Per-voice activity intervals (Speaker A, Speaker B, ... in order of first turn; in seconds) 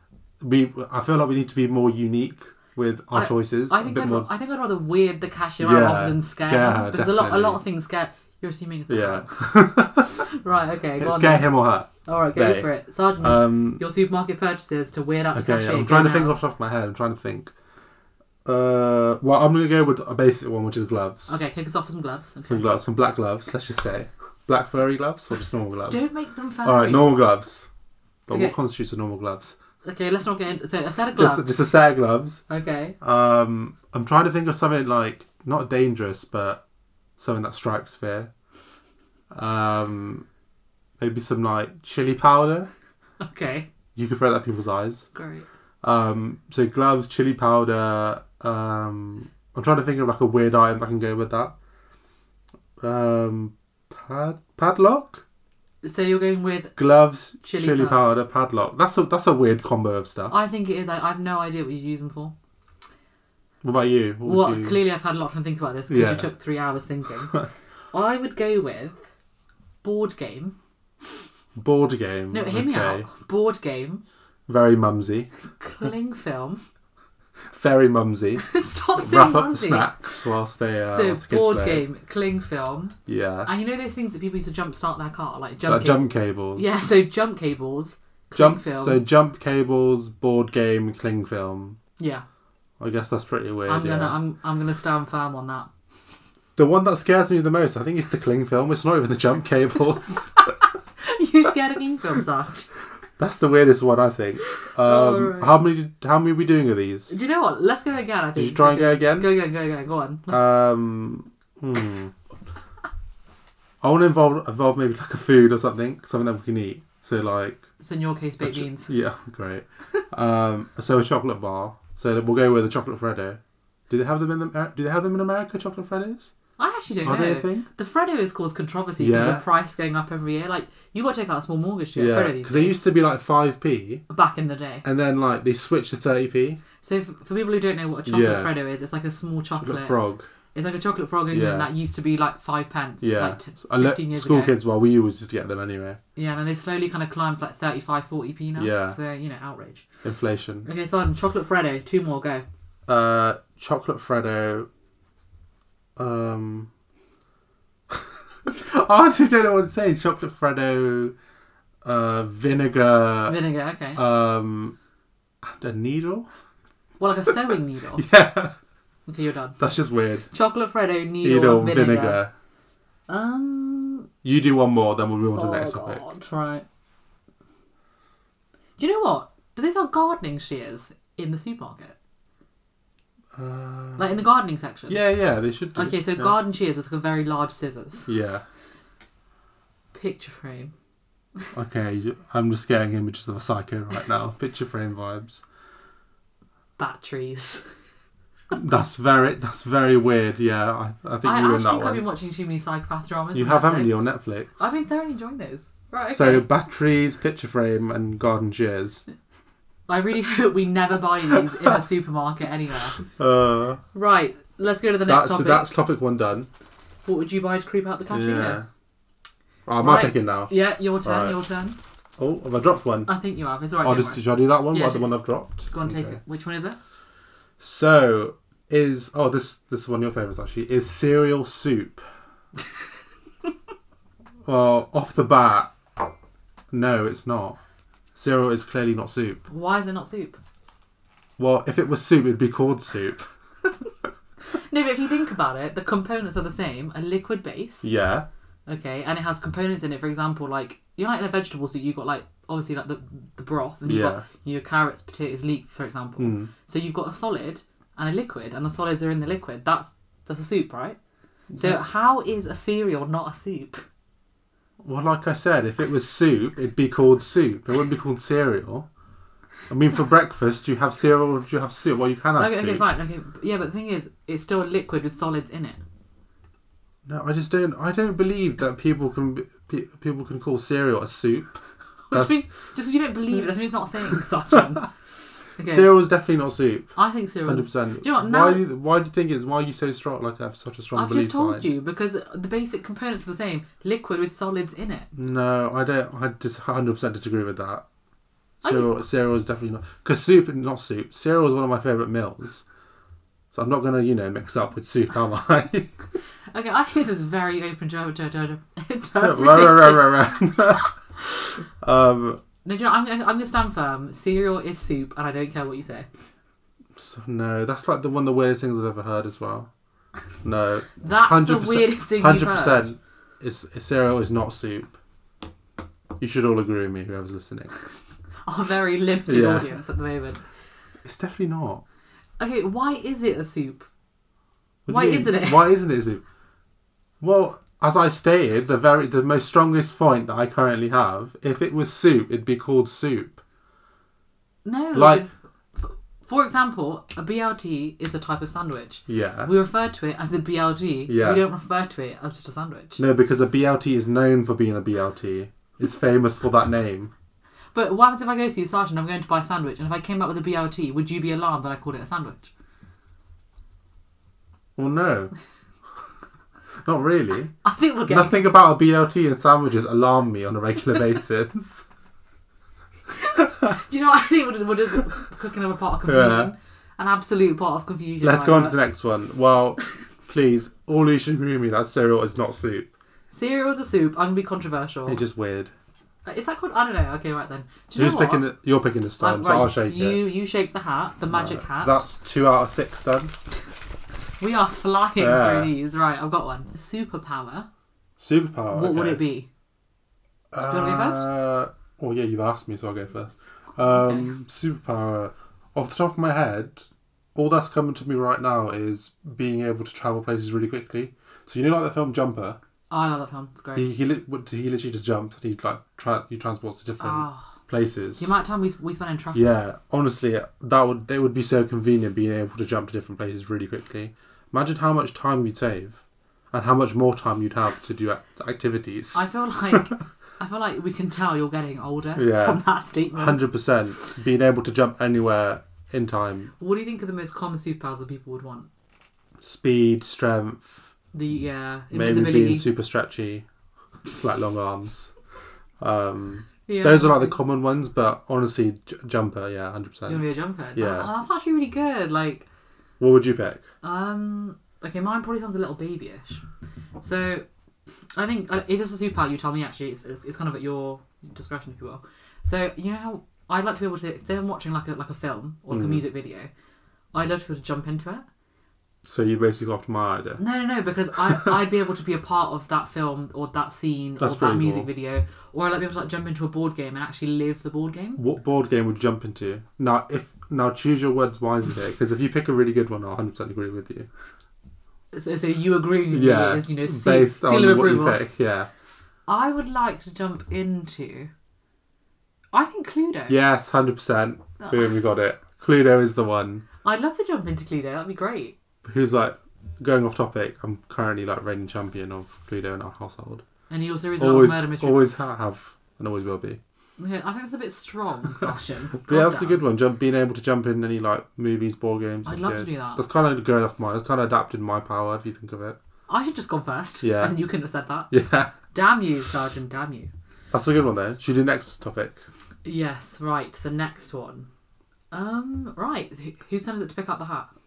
Speaker A: 0.4-4.3, 5.6-7.6, 8.9-10.2, 11.0-12.7, 13.2-13.8, 15.3-17.5, 18.4-21.4, 22.5-26.1, 26.6-27.7, 28.3-29.5, 31.1-32.4, 33.0-36.6, 37.2-38.3, 39.3-40.3, 41.0-42.7, 44.0-45.1, 45.8-51.5, 52.8-55.2, 56.8-60.3, 63.6-64.8, 65.9-66.3, 71.6-73.1, 74.5-75.3, 77.5-81.8, 83.1-83.5, 85.6-86.8, 88.3-91.8, 92.8-94.2, 96.5-100.3, 103.2-107.2, 108.4-109.3, 110.3-112.1, 113.8-117.7, 118.4-126.3, 127.0-127.7, 129.0-129.4, 131.9-134.0, 134.8-136.6, 138.1-138.5, 139.6-140.3, 141.3-141.7, 143.0-146.0, 148.6-149.0, 150.0-150.7, 152.9-154.7, 156.0-156.7, 158.4-161.1, 161.8-163.4, 163.9-164.8, 165.4-166.3, 167.9-168.5, 169.6-170.3, 171.2-172.3, 174.2-176.0, 183.3-184.1, 184.9-186.3, 188.1-188.4, 191.5-195.4, 198.5-202.1, 203.3-204.7, 206.1-209.1, 213.2-213.8, 215.1-216.5, 218.1-218.7, 219.7-221.4, 222.2-223.1, 223.8-226.2, 227.6-232.0, 234.4-235.7, 236.7-237.6, 238.1-239.4, 241.4-243.3, 247.8-248.2, 253.8-254.2, 256.2-256.5, 261.5-261.8, 264.8-268.9, 269.7-272.8, 277.1-281.6, 282.1-282.4, 285.6-286.9, 287.4-291.7, 295.1-297.8, 298.6-302.6, 303.5-305.9, 309.2-310.9, 311.8-312.4, 316.9-319.7, 320.4-325.0, 326.2-327.7, 329.3-329.7, 331.0-331.8, 334.9-336.2, 337.2-343.4, 344.9-345.2, 349.1-349.5, 351.1-351.4, 353.0-357.1, 364.8-365.3, 366.8-367.5, 368.1-371.9, 376.0-376.5, 378.2-382.9, 385.1-385.7, 387.9-390.3, 391.3-393.3, 395.2-395.7, 398.2-399.2, 400.5-412.6, 413.7-418.3, 419.3-429.9, 432.1-432.6, 433.1-436.5, 439.4-440.9, 441.9-443.4, 444.1-445.1, 445.8-450.2, 450.7-451.1, 453.0-453.6, 465.7-466.0, 469.0-470.4, 474.2-474.9, 478.2-484.1, 486.1-488.7, 493.3-496.6, 498.8-503.4, 504.2-506.6, 509.0-515.8, 517.0-517.4, 518.1-518.5, 520.5-522.2
Speaker B: 3.1-11.5, 12.0-16.4, 21.3-22.6, 25.9-27.1, 28.3-28.6, 29.8-31.5, 32.5-33.0, 43.2-43.7, 45.1-45.5, 55.8-56.8, 57.4-58.0, 60.3-62.3, 64.2-67.4, 67.9-69.0, 69.8-70.5, 72.3-74.0, 75.6-76.6, 78.4-79.9, 80.9-89.0, 92.0-92.2, 93.7-95.7, 101.0-102.7, 104.6-105.6, 107.1-110.4, 117.8-118.9, 126.6-132.8, 134.1-134.8, 136.8-139.9, 140.5-144.6, 146.2-149.9, 150.6-152.4, 163.3-164.0, 167.0-168.0, 169.1-169.6, 170.3-172.2, 173.1-174.1, 175.3-176.6, 178.8-181.9, 184.0-185.0, 185.7-188.1, 189.9-190.7, 196.8-197.7, 201.2-206.4, 209.9-213.0, 213.9-215.7, 217.0-218.6, 219.8-221.8, 223.1-226.8, 239.5-240.4, 244.5-247.9, 248.7-261.0, 261.6-263.8, 272.4-275.8, 282.1-284.9, 285.6-285.9, 286.9-288.6, 290.9-295.1, 298.6-298.9, 306.5-310.8, 312.6-316.1, 321.0-322.9, 328.4-330.4, 332.4-333.9, 334.9-335.7, 344.6-353.0, 357.7-362.5, 367.6-368.4, 373.1-378.7, 383.3-385.2, 386.2-388.4, 389.2-392.0, 394.4-397.7, 398.7-399.5, 400.6-401.2, 403.9-404.3, 412.9-413.9, 417.0-417.5, 418.2-419.5, 429.1-433.4, 436.6-438.7, 441.1-442.6, 446.7-447.4, 450.1-452.5, 453.8-456.4, 457.0-457.4, 458.1-466.5, 467.1-468.2, 470.4-478.2, 485.1-488.2, 489.3-491.3, 492.5-493.4, 494.6-494.9, 496.8-498.6, 503.7-505.3, 507.0-509.6, 512.2-513.0, 516.1-518.1, 518.7-520.1, 522.6-524.5, 525.1-527.5